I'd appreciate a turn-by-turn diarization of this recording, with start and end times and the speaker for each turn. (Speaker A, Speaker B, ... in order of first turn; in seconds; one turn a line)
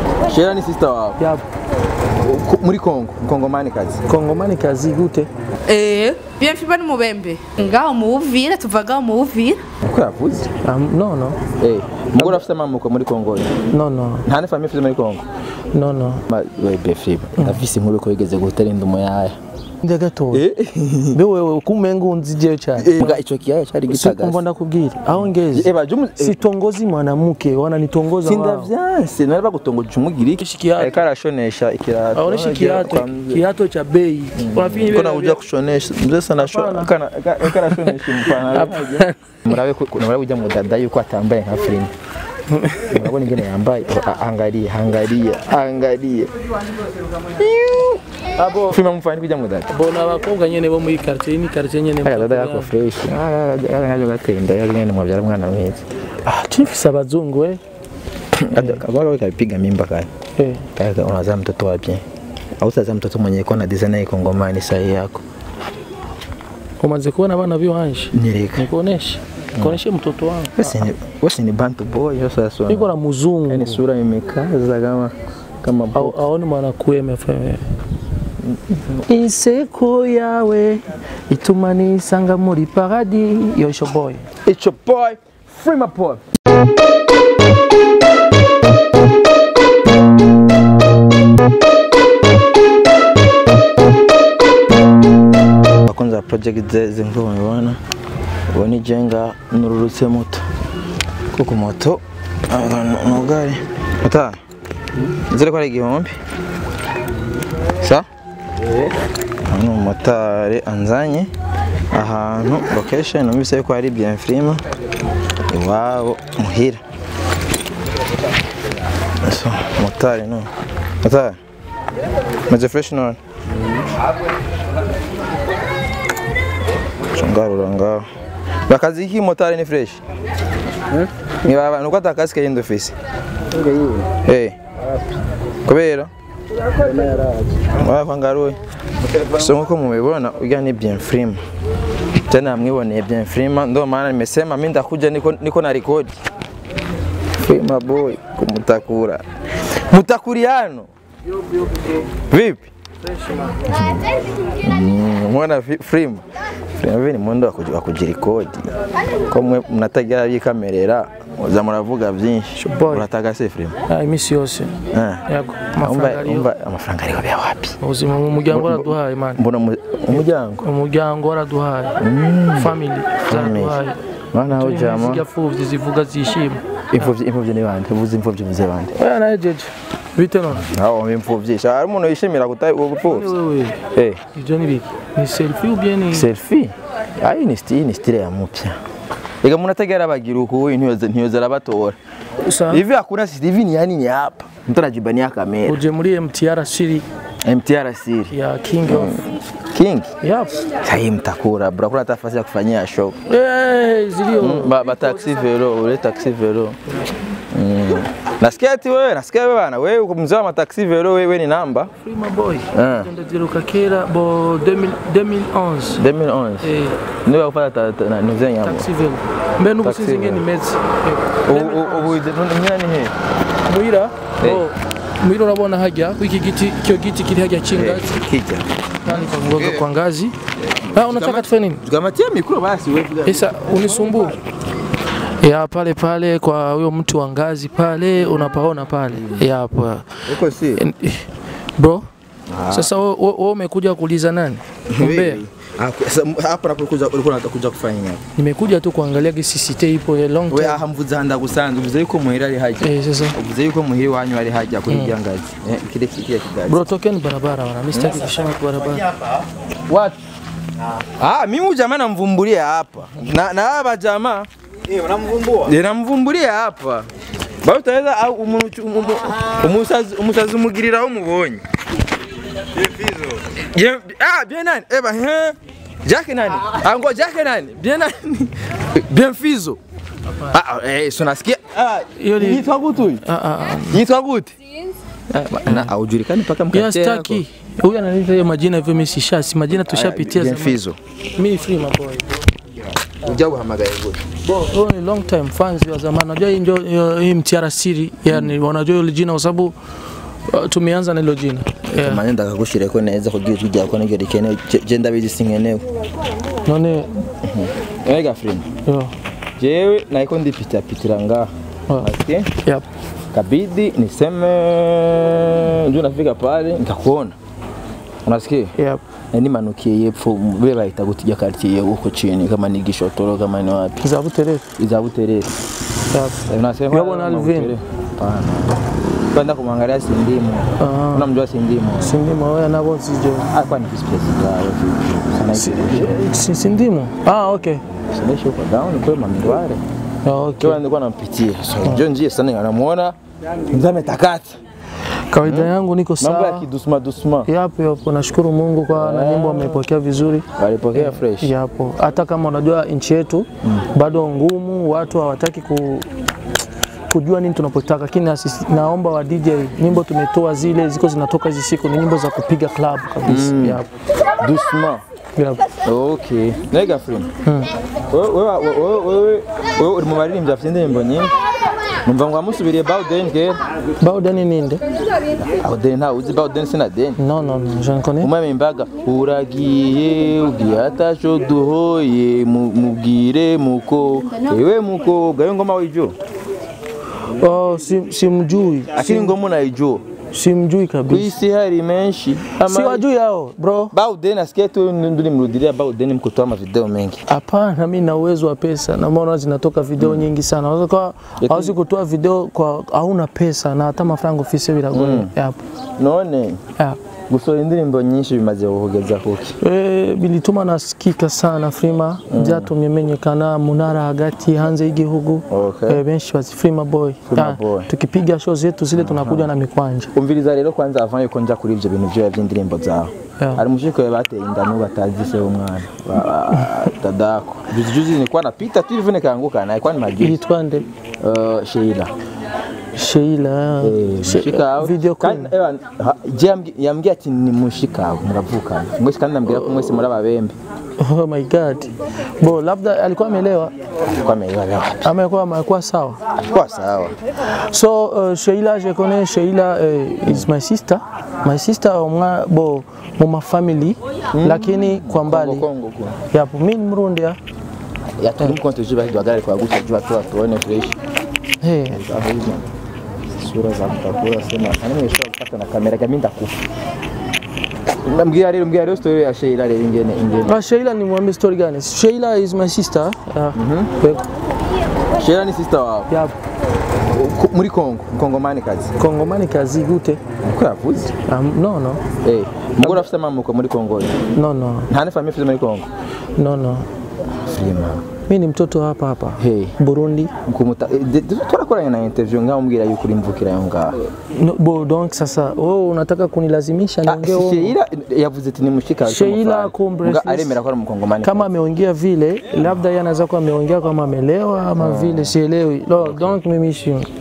Speaker A: 0.3-1.2
Speaker B: 1.2-1.5
Speaker A: 2.2-4.0
Speaker B: 4.1-5.3
Speaker C: 5.7-9.6
Speaker A: 9.8-10.5
Speaker B: 10.6-11.4
Speaker A: 11.6-13.6
Speaker B: 12.2-12.4
Speaker B: 13.7-14.3
Speaker A: 14.2-15.2
Speaker B: 15.7-16.2
Speaker A: 16.3-19.4
Speaker B: 19.8-20.5
Speaker A: 20.3-21.2
Speaker B: 21.1-23.2
Speaker A: 22.8-24.4
Speaker B: 23.9-28.7
Speaker A: 25.4-26.4
Speaker A: 28.2-33.4
Speaker B: 30.4-31.0
Speaker B: 32.1-35.4
Speaker A: 34.4-41.9
Speaker B: 36.4-36.9
Speaker B: 37.5-39.2
Speaker B: 42.5-43.1
Speaker A: 42.9-46.3
Speaker A: 47.4-48.0
Speaker B: 48.4-48.8
Speaker A: 48.7-49.7
Speaker B: 49.7-52.7
Speaker A: 52.0-55.8
Speaker B: 56.2-57.6
Speaker A: 58.3-60.1
Speaker B: 58.5-58.8
Speaker B: 60.4-60.7
Speaker A: 60.8-62.0
Speaker A: 62.6-65.2
Speaker B: 66.8-70.9
Speaker A: 68.1-68.7
Speaker A: 70.6-72.9
Speaker B: 72.7-73.8
Speaker A: 73.5-76.2
Speaker B: 75.9-77.6
Speaker B: 79.1-84.3
Speaker A: 84.5-86.2
Speaker A: 95.8-97.8
Speaker A: 98.5-100.4
Speaker A: 101.3-104.4
Speaker A: 105.1-106.2
Speaker A: 107.8-108.1
Speaker A: 109.5-111.3
Speaker A: 111.9-114.6
Speaker A: 115.5-116.8
Speaker A: 119.2-120.5
Speaker A: 121.0-121.4
Speaker A: 122.5-123.2
Speaker A: 127.1-128.1
Speaker A: 128.7-130.0
Speaker A: 130.9-132.9
Speaker A: 133.5-134.6
Speaker A: 135.7-136.1
Speaker A: 136.6-138.6
Speaker A: 139.1-141.4
Speaker A: 142.3-146.2
Speaker A: 147.4-150.9
Speaker A: 152.3-152.7
Speaker A: 153.6-154.1
Speaker A: 154.6-156.2
Speaker A: 156.8-158.7
Speaker A: 159.3-163.8
Speaker B: 162.6-163.1
Speaker B: 163.9-166.5
Speaker A: 164.9-165.3
Speaker A: 165.8-167.8
Speaker B: 167.8-169.4
Speaker A: 168.5-170.6
Speaker B: 170.6-172.0
Speaker A: 172.0-172.8
Speaker B: 172.5-174.0
Speaker A: 173.3-173.8
Speaker A: 174.3-175.2
Speaker B: 174.5-177.1
Speaker A: 176.9-178.9
Speaker B: 178.9-180.7
Speaker A: 180.5-183.3
Speaker B: 183.1-186.3
Speaker A: 183.9-184.2
Speaker A: 186.1-188.8
Speaker A: 189.4-192.0
Speaker B: 192.4-192.8
Speaker A: 192.7-195.8
Speaker B: 195.7-197.1
Speaker A: 197.4-198.3
Speaker B: 198.3-199.3
Speaker A: 198.9-200.1
Speaker B: 200.2-200.6
Speaker A: 200.8-203.2
Speaker B: 203.3-205.4
Speaker A: 204.4-206.8
Speaker A: 207.5-211.9
Speaker B: 212.0-216.0
Speaker A: 212.7-213.1
Speaker A: 215.9-216.7
Speaker B: 216.6-217.1
Speaker A: 217.2-218.9
Speaker B: 218.6-222.2
Speaker A: 219.8-220.4
Speaker A: 221.4-223.1
Speaker B: 223.7-228.2
Speaker A: 224.4-224.7
Speaker A: 227.7-229.9
Speaker B: 229.1-230.4
Speaker A: 230.6-234.4
Speaker B: 230.9-231.8
Speaker B: 233.2-234.4
Speaker B: 235.4-240.2
Speaker A: 239.2-239.5
Speaker A: 240.2-240.9
Speaker B: 240.7-242.1
Speaker A: 242.5-242.9
Speaker B: 242.7-245.4
Speaker A: 244.9-248.2
Speaker B: 248.4-250.8
Speaker A: 250.5-256.9
Speaker B: 252.8-253.4
Speaker B: 254.9-255.2
Speaker B: 256.6-259.2
Speaker A: 257.9-258.3
Speaker A: 259.9-260.2
Speaker A: 261.2-264.5
Speaker A: 265.1-267.1
Speaker A: 267.6-271.6
Speaker A: 272.7-279.8
Speaker A: 280.4-283.2
Speaker B: 282.1-284.0
Speaker A: 283.9-284.6
Speaker A: 285.3-287.4
Speaker B: 285.7-285.9
Speaker B: 286.7-290.8
Speaker A: 289.8-291.0
Speaker B: 291.4-292.4
Speaker A: 293.2-294.2
Speaker B: 294.4-299.8
Speaker B: 300.5-302.2
Speaker A: 301.9-305.9
Speaker B: 306.6-307.1
Speaker A: 307.4-308.7
Speaker B: 308.9-309.1
Speaker A: 309.6-312.5
Speaker B: 311.9-312.9
Speaker A: 313.3-317.4
Speaker A: 318.2-318.8
Speaker B: 318.8-319.0
Speaker A: 319.3-324.0
Speaker B: 324.0-324.7
Speaker A: 324.8-325.5
Speaker B: 326.1-327.8
Speaker A: 326.4-332.2
Speaker B: 330.8-331.3
Speaker B: 332.0-333.5
Speaker A: 333.5-336.2
Speaker B: 335.5-337.8
Speaker A: 338.1-339.8
Speaker B: 340.2-340.8
Speaker A: 340.6-344.6
Speaker B: 345.3-346.7
Speaker A: 345.4-347.5
Speaker B: 347.5-356.1
Speaker A: 348.9-349.8
Speaker A: 350.6-351.5
Speaker B: 357.1-363.9
Speaker A: 363.2-363.8
Speaker A: 364.4-365.0
Speaker B: 365.4-365.7
Speaker A: 365.9-367.3
Speaker B: 367.4-367.7
Speaker A: 368.1-371.4
Speaker A: 372.1-373.6
Speaker B: 374.0-374.8
Speaker A: 375.4-377.2
Speaker B: 377.2-378.3
Speaker A: 378.2-386.1
Speaker B: 387.3-389.4
Speaker A: 388.9-390.0
Speaker B: 390.3-391.3
Speaker A: 391.1-393.0
Speaker B: 392.6-393.9
Speaker A: 393.9-397.2
Speaker B: 397.3-405.6
Speaker A: 401.4-401.7
Speaker A: 404.9-405.3
Speaker A: 406.0-406.6
Speaker A: 407.3-409.6
Speaker B: 409.6-420.1
Speaker A: 412.3-412.7
Speaker A: 415.5-416.0
Speaker A: 417.3-417.9
Speaker A: 419.0-419.5
Speaker A: 420.1-430.4
Speaker B: 430.2-430.9
Speaker A: 431.2-432.1
Speaker B: 432.9-435.5
Speaker A: 433.8-440.6
Speaker B: 439.5-440.0
Speaker B: 441.0-443.7
Speaker A: 444.1-445.1
Speaker B: 445.0-446.2
Speaker A: 446.4-447.2
Speaker B: 447.5-455.7
Speaker A: 454.3-456.2
Speaker B: 456.3-457.4
Speaker A: 458.2-461.0
Speaker B: 461.6-462.0
Speaker A: 461.9-462.6
Speaker A: 463.3-466.6
Speaker A: 468.0-470.6
Speaker B: 470.4-474.3
Speaker A: 473.5-473.9
Speaker A: 475.1-476.1
Speaker B: 476.1-476.4
Speaker A: 477.1-479.0
Speaker B: 479.0-480.2
Speaker A: 480.4-481.2
Speaker B: 481.3-482.0
Speaker A: 482.2-484.3
Speaker B: 484.3-484.9
Speaker A: 484.9-485.9
Speaker B: 486.4-486.9
Speaker A: 487.4-488.1
Speaker B: 488.3-490.3
Speaker A: 489.4-489.8
Speaker A: 490.4-494.0
Speaker B: 494.3-497.8
Speaker A: 497.1-501.5
Speaker B: 499.0-500.6
Speaker B: 501.2-507.1
Speaker A: 504.8-505.3
Speaker A: 506.0-506.4